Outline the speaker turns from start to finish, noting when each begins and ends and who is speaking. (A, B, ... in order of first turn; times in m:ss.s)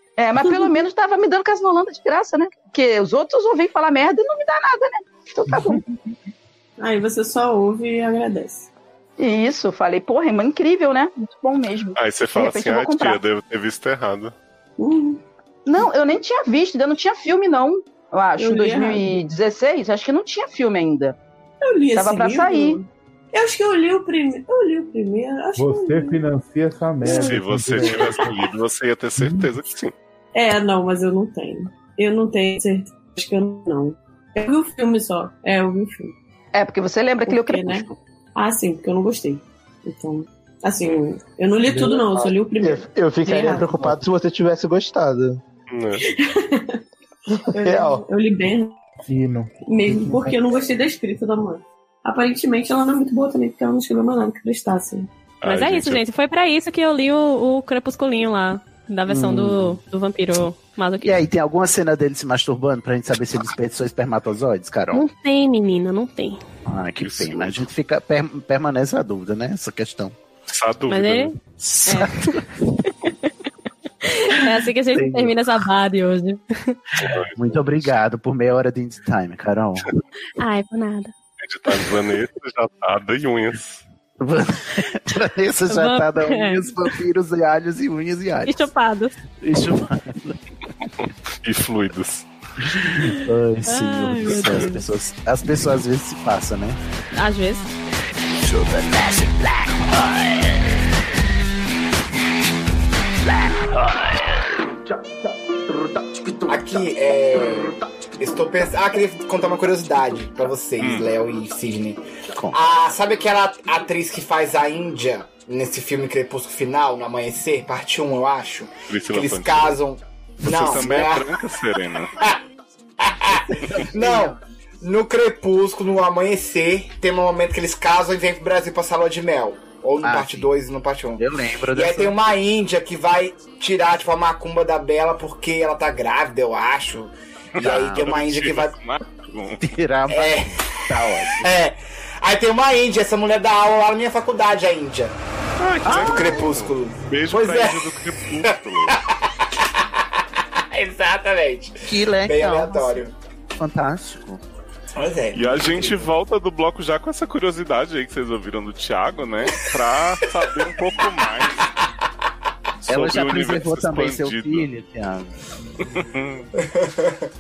0:00.2-0:05.8 A
0:05.5-0:05.8 B
0:06.8-0:08.7 C
0:09.2-0:13.2 A
0:12.0-0:14.3 D
0:14.8-0:15.2 C
0:15.7-0:21.2 A
0:18.4-0:19.2 C
0:21.6-0:26.2 C
0:22.0-0:22.8 A
0:25.6-0:28.3 B
0:27.0-0:28.3 C
0:27.0-0:29.9 D
0:29.2-0:29.5 B
0:30.3-0:36.1 C
0:36.5-0:37.8 A
0:37.3-0:44.0 C
0:41.7-0:42.1 B
0:42.1-0:45.4 E
0:45.7-0:46.0 D
0:46.0-0:46.8 C
0:47.5-0:48.8 C
0:47.5-0:48.0 E
0:49.1-0:50.4 B
0:49.7-0:55.1 C
0:55.4-0:56.0 D
0:55.4-1:01.2 F
0:59.1-0:59.8 G
1:01.0-1:05.0 G
1:04.9-1:06.4 F
1:06.7-1:10.2 G
1:07.0-1:07.7 D
1:10.5-1:11.3 D
1:10.9-1:13.3 F
1:11.6-1:12.4 G
1:14.0-1:16.8 F
1:14.9-1:15.4 G
1:17.0-1:17.9 D
1:17.1-1:19.9 G
1:20.4-1:21.1 F
1:21.4-1:23.8 D
1:24.2-1:28.7 G
1:25.7-1:26.7 F
1:28.4-1:29.2 F
1:29.4-1:30.4 G
1:31.0-1:32.3 D
1:32.6-1:36.8 G
1:33.1-1:34.9 F
1:37.1-1:37.7 F
1:38.4-1:40.2 G
1:43.8-1:44.3 G
1:46.5-2:01.3 H
1:50.8-1:51.1 D
1:58.9-1:59.8 D
2:00.4-2:02.1 D
2:03.0-2:18.8 H
2:03.3-2:04.4 G
2:10.0-2:10.5 G
2:11.2-2:12.2 G
2:17.6-2:19.6 D
2:17.6-2:18.1 G
2:19.6-2:21.5 G
2:20.1-2:20.6 H
2:21.4-2:25.2 H
2:25.6-2:29.0 D
2:25.8-2:26.4 G
2:25.9-2:29.0 H
2:30.7-2:33.2 H
2:31.8-2:33.1 G
2:33.6-2:34.4 G
2:35.0-2:36.1 H
2:35.3-2:41.7 D
2:42.8-2:44.7 D
2:42.9-2:45.3 G
2:45.9-2:46.5 D
2:46.6-2:47.2 H